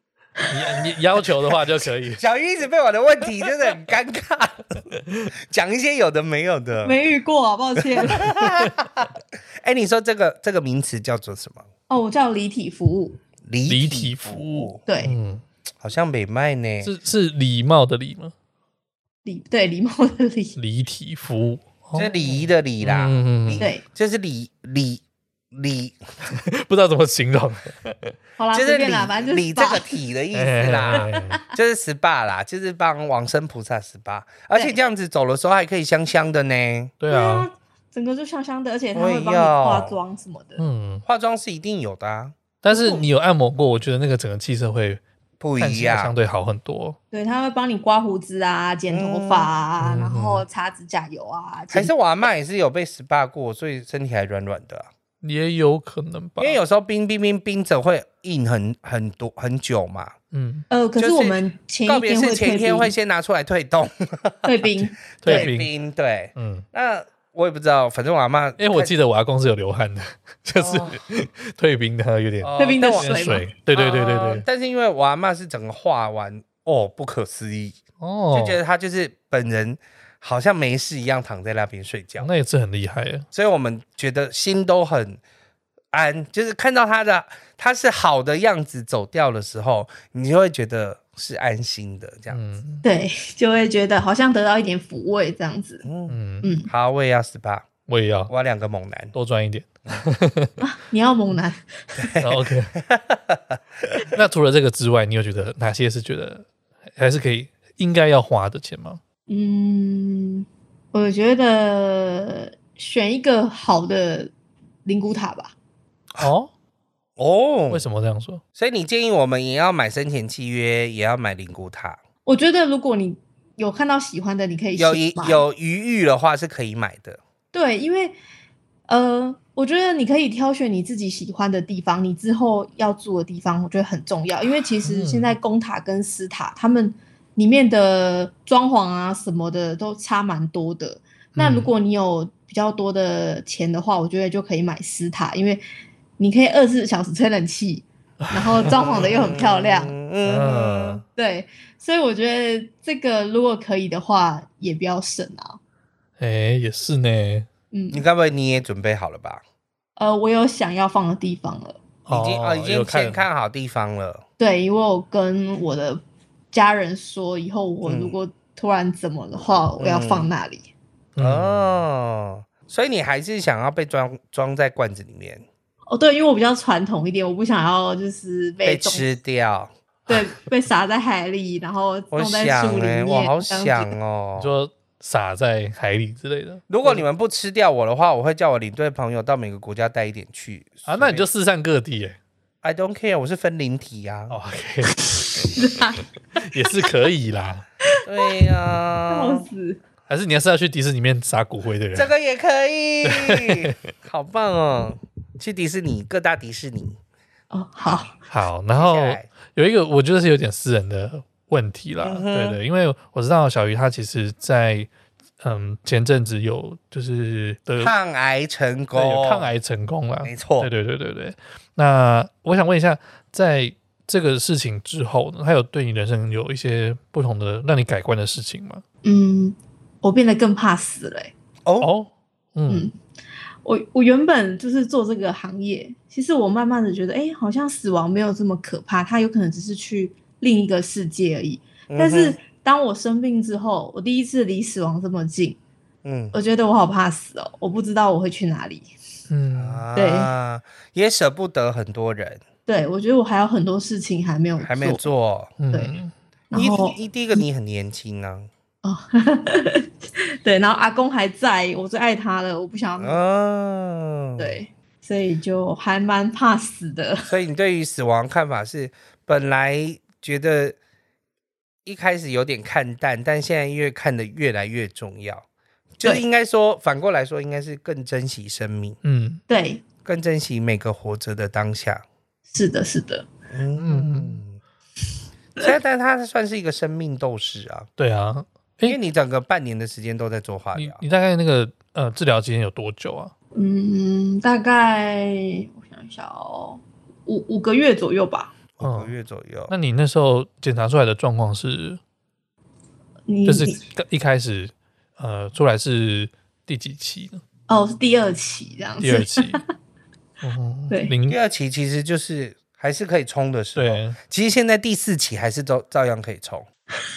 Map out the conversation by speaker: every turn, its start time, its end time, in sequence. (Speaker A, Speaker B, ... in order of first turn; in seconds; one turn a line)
Speaker A: 0.5-2.2
Speaker B: 2.2-4.8
Speaker A: 5.1-5.3
Speaker B: 5.4-7.0
Speaker C: 6.8-8.3
Speaker B: 8.0-9.1
Speaker A: 8.2-8.7
Speaker B: 9.6-11.7
Speaker C: 11.9-13.2
Speaker B: 13.4-14.8
Speaker A: 13.7-15.4
Speaker C: 14.9-15.2
Speaker B: 15.8-16.9
Speaker A: 16.8-18.3
Speaker C: 19.2-20.6
Speaker A: 20.6-22.1
Speaker B: 21.9-26.0
Speaker A: 22.8-23.7
Speaker A: 26.3-28.1
Speaker C: 28.4-30.0
Speaker B: 28.5-36.9
Speaker A: 30.3-31.4
Speaker A: 37.0-37.5
Speaker C: 37.1-40.6
Speaker B: 39.0-40.0
Speaker A: 40.6-41.0
Speaker B: 41.1-42.4
Speaker A: 42.6-45.0
Speaker C: 42.7-43.0
Speaker B: 45.4-46.1
Speaker A: 45.6-47.0
Speaker C: 47.1-51.9
Speaker B: 48.9-49.5
Speaker A: 49.8-50.5
Speaker B: 51.7-54.9
Speaker A: 55.2-56.6
Speaker B: 56.4-60.1
Speaker A: 60.3-60.6
Speaker C: 60.7-62.9
Speaker B: 61.0-64.5
Speaker C: 64.5-65.5
Speaker A: 65.2-65.7
Speaker B: 65.2-69.0
Speaker A: 66.3-66.7
Speaker A: 68.6-74.5
Speaker B: 70.6-71.0
Speaker B: 72.4-77.8
Speaker C: 72.6-73.5
Speaker A: 78.0-78.6
Speaker B: 78.3-82.3
Speaker A: 82.2-83.3
Speaker B: 83.3-85.2
Speaker B: 85.9-92.4
Speaker A: 92.3-92.8
Speaker C: 92.8-95.9
Speaker B: 95.8-96.2
Speaker A: 96.1-96.5
Speaker C: 96.4-96.7
Speaker B: 96.7-97.7
Speaker A: 97.9-98.3
Speaker B: 98.3-99.1
Speaker A: 99.1-100.6
Speaker C: 100.6-102.2
Speaker B: 102.0-104.0
Speaker A: 102.2-102.8
Speaker A: 104.1-106.5
Speaker A: 107.0-109.0
Speaker C: 109.3-114.3
Speaker C: 114.8-115.5
Speaker A: 116.2-116.5
Speaker B: 117.2-117.8
Speaker A: 117.7-118.4
Speaker B: 118.6-122.0
Speaker C: 122.3-125.4
Speaker B: 124.8-127.2
Speaker C: 127.5-128.2
Speaker C: 128.9-145.6
Speaker A: 134.8-135.3
Speaker A: 141.4-141.7
Speaker C: 146.2-149.9
Speaker B: 148.7-151.1
Speaker A: 150.3-151.0
Speaker C: 151.2-155.6
Speaker A: 156.2-157.5
Speaker C: 157.7-158.0
Speaker B: 157.9-159.4
Speaker C: 160.0-161.8
Speaker A: 162.1-163.2
Speaker B: 162.1-164.2
Speaker C: 164.4-170.7
Speaker B: 167.8-168.2
Speaker B: 169.8-170.3
Speaker A: 171.2-171.8
Speaker B: 171.2-175.5
Speaker C: 175.9-179.1
Speaker B: 178.6-179.7
Speaker C: 180.1-183.9
Speaker B: 182.1-184.5
Speaker A: 184.4-187.0
Speaker B: 186.7-191.3
Speaker A: 190.9-192.2
Speaker B: 192.6-194.4
Speaker A: 194.3-195.8
Speaker C: 195.6-196.0
Speaker A: 196.4-197.7
Speaker B: 198.1-199.5
Speaker C: 199.1-199.8
Speaker A: 200.1-202.1
Speaker B: 201.9-207.0
Speaker A: 203.0-203.8
Speaker C: 207.5-208.1
Speaker A: 208.3-214.9
Speaker B: 208.8-209.3
Speaker B: 212.0-212.6
Speaker A: 215.4-217.9
Speaker B: 217.8-219.5
Speaker A: 218.9-228.8
Speaker B: 220.2-220.7
Speaker C: 229.0-231.3
Speaker B: 231.7-231.9
Speaker A: 231.8-232.9
Speaker C: 232.7-232.9
Speaker C: 233.6-245.6
Speaker B: 241.9-242.4
Speaker B: 246.0-246.3
Speaker C: 246.3-248.9
Speaker A: 249.3-249.9
Speaker B: 249.6-252.4
Speaker C: 250.0-250.3
Speaker C: 252.7-255.1
Speaker B: 254.6-255.6
Speaker A: 255.6-256.1
Speaker C: 256.5-257.0
Speaker B: 256.5-258.5
Speaker C: 258.8-263.2
Speaker B: 263.0-264.6
Speaker C: 264.4-267.3
Speaker B: 267.3-270.8
Speaker B: 271.9-275.4
Speaker B: 276.0-279.0
Speaker A: 279.0-279.4
Speaker C: 279.5-279.8
Speaker B: 280.1-282.1
Speaker C: 282.5-283.3
Speaker B: 283.5-284.6
Speaker A: 283.8-284.4
Speaker B: 285.6-287.9
Speaker A: 288.0-289.0
Speaker B: 288.9-291.0
Speaker A: 290.7-293.3
Speaker C: 293.6-298.5
Speaker B: 298.8-299.7
Speaker A: 298.8-299.1
Speaker A: 299.7-302.0
Speaker C: 303.3-303.8
Speaker A: 303.5-307.4
Speaker C: 307.7-309.7
Speaker A: 309.0-309.6
Speaker A: 310.4-311.4
Speaker B: 311.3-316.7
Speaker A: 313.8-314.2